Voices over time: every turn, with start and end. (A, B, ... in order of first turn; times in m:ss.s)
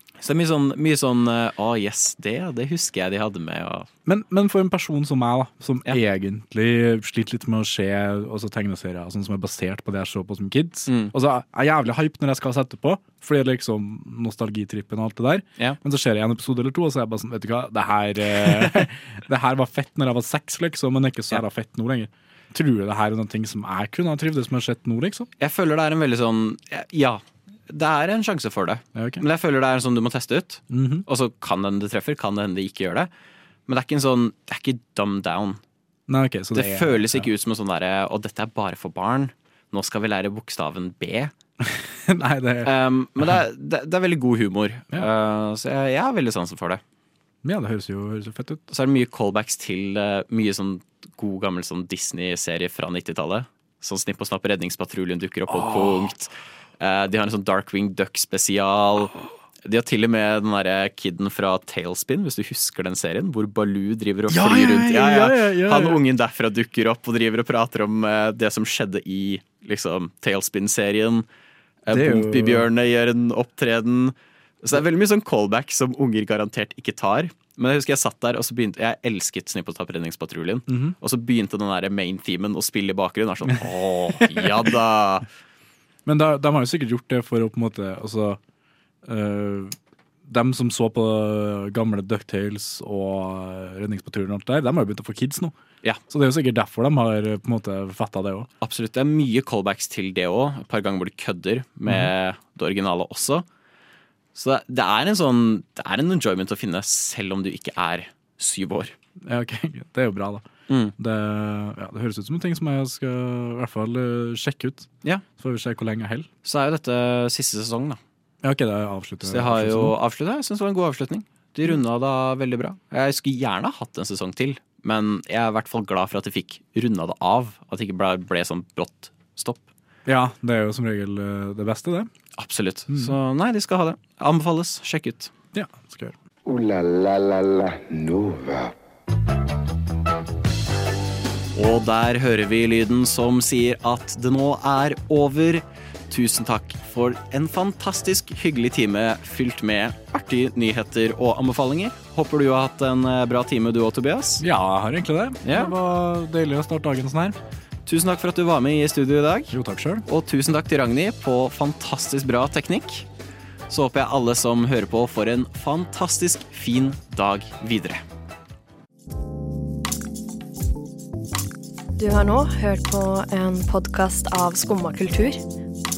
0:00.2-0:03.9 A
0:04.0-0:25.3 B
0:10.9-0:11.1 A
0:18.4-0:18.8 A
0:25.4-0:33.1 A
0:28.9-0:29.2 B
0:30.7-0:31.1 B
0:33.7-0:35.6 A
0:36.1-0:37.3 B
0:36.5-0:41.3 A
0:41.6-0:43.4 B
0:42.6-0:46.8 A
0:47.4-0:48.6 B
0:48.7-0:59.1 A
0:55.5-0:56.1 B
0:59.6-1:11.2 A
1:04.3-1:06.0 B
1:11.9-1:25.3 A
1:11.9-1:12.7 B
1:20.7-1:21.0 B
1:23.4-1:24.7 B
1:26.0-1:28.4 B
1:29.0-1:35.5 B
1:36.1-1:38.5 B
1:38.6-1:43.4 A
1:41.9-1:42.1 B
1:44.3-1:49.0 A
1:49.2-1:50.4 B
1:50.7-1:50.9 A
1:51.0-1:56.3 B
1:56.4-1:58.0 A
1:58.4-2:00.0 B
1:59.2-2:09.7 A
2:10.0-2:12.1 B
2:12.4-2:15.3 A
2:12.9-2:13.2 B
2:15.5-2:16.2 B
2:16.4-2:18.7 C
2:21.5-2:34.4 A
2:34.4-2:37.4 B
2:35.4-2:35.7 A
2:37.8-2:39.5 A
2:39.5-2:40.0 B
2:40.0-2:43.1 A
2:43.7-2:48.0 A
2:52.0-2:55.4 D